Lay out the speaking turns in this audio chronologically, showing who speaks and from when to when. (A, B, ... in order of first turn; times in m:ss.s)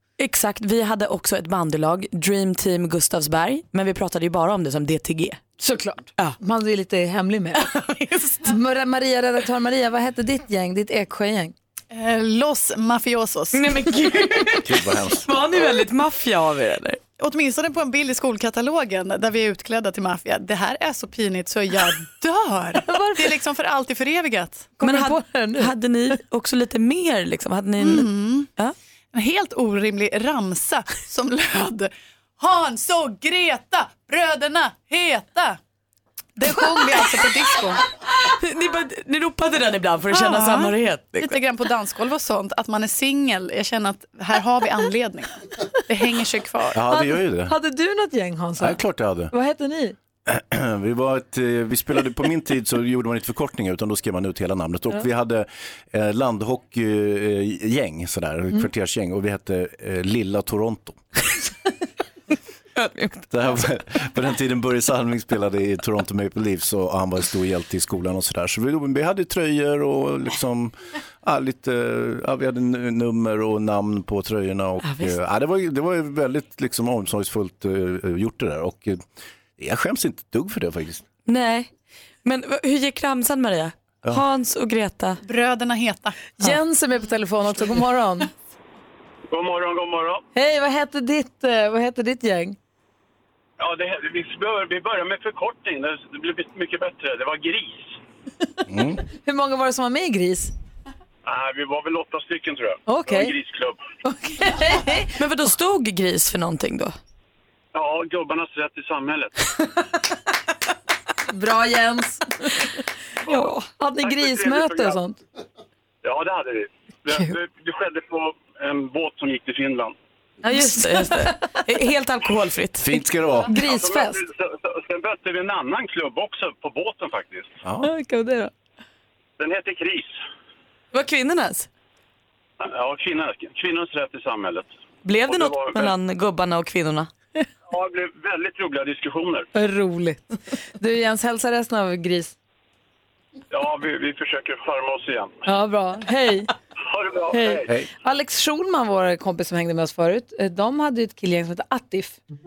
0:00.2-0:05.4 A
0:05.6-0:07.6 B
0:07.6-0:08.5 A
0:08.4-0:11.5 B
0:11.9-0:13.9 C
0:13.5-0:17.0 A
0:14.6-0:15.3 D
0:17.2-0:24.8 C
0:22.8-0:23.3 B
0:24.8-0:25.7 B
0:24.8-0:28.7 A
0:27.8-0:28.5 C
0:29.1-0:35.6 C
0:36.4-0:37.8 C
0:36.5-0:36.8 B
0:38.2-0:41.4 A
0:40.1-0:46.8 C
0:46.7-0:47.5 D
0:46.9-0:50.0 B
0:48.6-0:49.3 D
0:50.3-1:01.0 D
1:02.8-1:03.2 A
1:03.3-1:19.0 D
1:14.8-1:15.1 A
1:19.6-1:21.0 D
1:21.3-1:21.7 A
1:22.2-1:25.2 A
1:25.2-1:26.2 C
1:26.4-1:28.3 B
1:29.3-1:30.2 E
1:30.3-1:32.6 B
1:33.6-1:38.0 E
1:38.7-1:39.0 D
1:39.2-1:40.5 B
1:41.2-1:43.8 E
1:42.9-1:43.3 B
1:44.0-1:45.1 B
1:45.1-1:47.0 A
1:47.7-1:49.3 E
1:51.3-1:52.6 B
1:53.2-1:55.0 E
1:53.3-1:55.2 B
1:56.0-1:59.9 E
2:00.4-2:03.0 A
2:00.6-2:01.1 B
2:02.8-2:03.5 D
2:03.5-2:04.2 B
2:03.6-2:07.6 E
2:07.6-2:07.9 D
2:07.8-2:08.5 B
2:09.4-2:10.2 E
2:10.9-2:11.7 A
2:12.6-2:14.7 E
2:15.0-2:17.1 A
2:15.2-2:15.9 E
2:17.7-2:19.5 E
2:19.5-2:20.2 B
2:20.8-2:22.3 B
2:23.5-2:25.4 E
2:25.4-2:26.5 B
2:26.8-2:27.7 E
2:27.3-2:32.2 B